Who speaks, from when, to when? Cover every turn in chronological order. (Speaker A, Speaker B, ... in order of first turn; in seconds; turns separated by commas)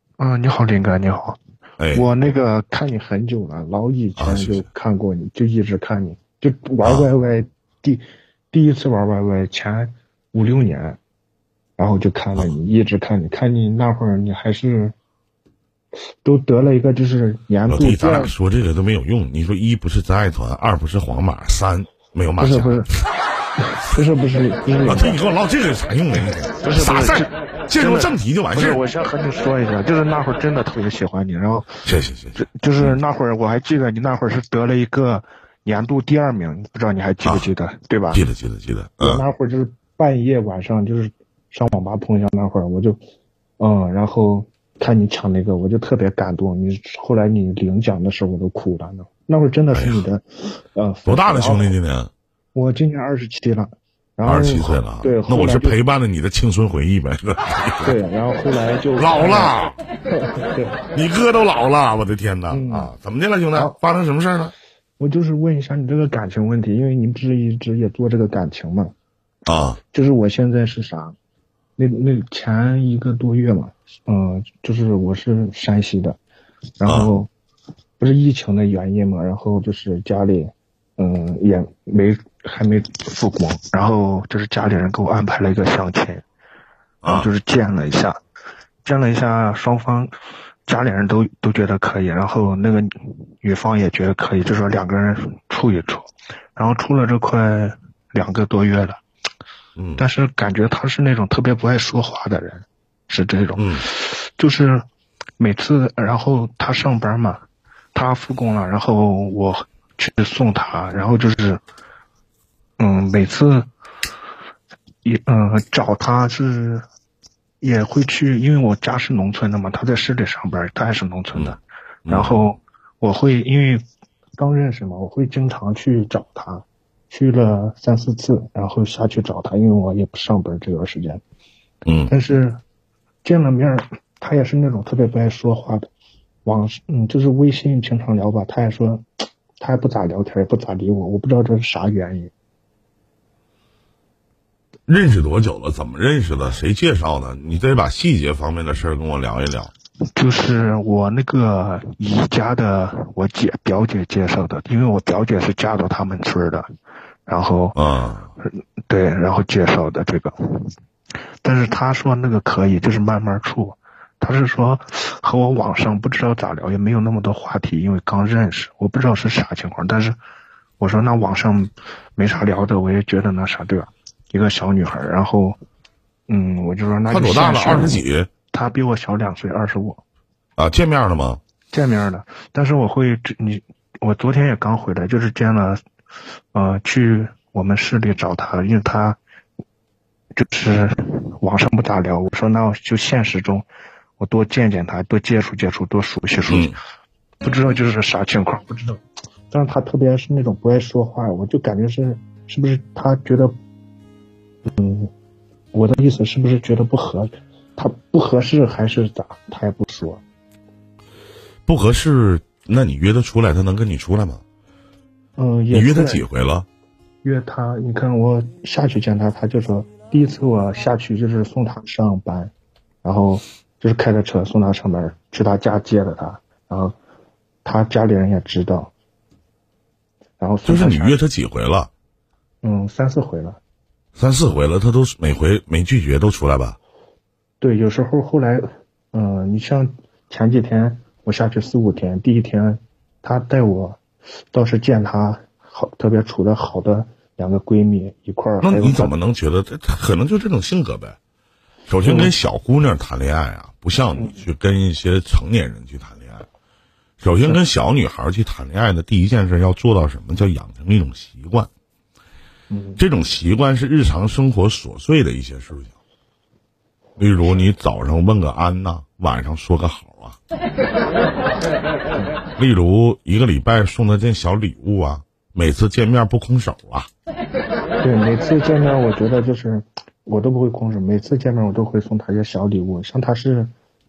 Speaker A: 0.2-1.4, Speaker B: 1.8-2.1, Speaker A: 1.9-11.0, Speaker B: 4.2-4.7, Speaker B: 6.8-7.1, Speaker A: 11.8-14.9, Speaker A: 16.2-18.3, Speaker B: 17.7-22.8, Speaker A: 22.4-22.9, Speaker A: 23.7-25.2, Speaker B: 24.8-28.8, Speaker A: 26.6-31.8, Speaker B: 31.9-33.0, Speaker A: 32.4-38.2, Speaker B: 38.1-39.2, Speaker A: 39.0-43.0, Speaker A: 43.6-51.7, Speaker B: 49.7-50.0, Speaker B: 51.1-52.1, Speaker A: 52.5-55.8, Speaker B: 54.3-58.0, Speaker A: 57.8-59.5, Speaker B: 59.0-59.8, Speaker A: 60.1-60.8, Speaker B: 60.9-64.5, Speaker A: 62.5-62.9, Speaker A: 65.0-68.9, Speaker B: 69.5-69.8, Speaker A: 69.9-71.2, Speaker A: 71.8-76.2, Speaker A: 76.8-77.3, Speaker B: 76.9-77.1, Speaker A: 78.0-86.2, Speaker B: 87.0-87.3, Speaker A: 87.0-88.2, Speaker A: 88.8-90.1, Speaker A: 90.7-99.0, Speaker B: 99.8-100.0, Speaker A: 100.0-104.8, Speaker B: 103.6-103.9, Speaker A: 105.4-107.4, Speaker A: 108.0-111.6, Speaker A: 112.8-113.7, Speaker A: 115.0-116.8, Speaker A: 117.6-123.8, Speaker B: 122.1-122.4, Speaker A: 124.4-131.2, Speaker B: 131.9-132.1, Speaker A: 132.1-132.6, Speaker A: 133.2-135.9, Speaker A: 136.4-139.1, Speaker A: 139.6-142.3, Speaker B: 144.9-149.7, Speaker A: 150.2-156.7, Speaker A: 157.3-157.8, Speaker B: 157.8-158.3, Speaker A: 158.4-160.7, Speaker A: 161.4-170.2, Speaker A: 170.8-175.6, Speaker A: 176.3-180.0, Speaker B: 177.1-178.3, Speaker B: 180.6-181.4, Speaker A: 181.7-185.8, Speaker A: 186.5-189.2, Speaker A: 190.4-193.7, Speaker A: 194.2-196.7, Speaker B: 196.5-196.8, Speaker A: 197.4-203.5, Speaker A: 204.7-205.1, Speaker A: 205.7-210.2, Speaker B: 211.7-214.4, Speaker A: 215.4-216.2, Speaker B: 215.7-216.7, Speaker A: 217.2-222.5, Speaker A: 223.0-226.9, Speaker A: 227.7-228.9, Speaker A: 230.4-231.2, Speaker B: 230.7-231.9, Speaker A: 232.6-233.6, Speaker B: 234.2-236.8, Speaker A: 237.6-244.0, Speaker A: 244.5-249.1, Speaker B: 248.6-251.2, Speaker B: 251.9-256.5, Speaker A: 252.0-252.3, Speaker B: 257.2-261.7, Speaker A: 262.7-263.0, Speaker B: 263.0-265.9, Speaker B: 267.2-270.4, Speaker B: 272.6-277.1, Speaker A: 278.0-283.7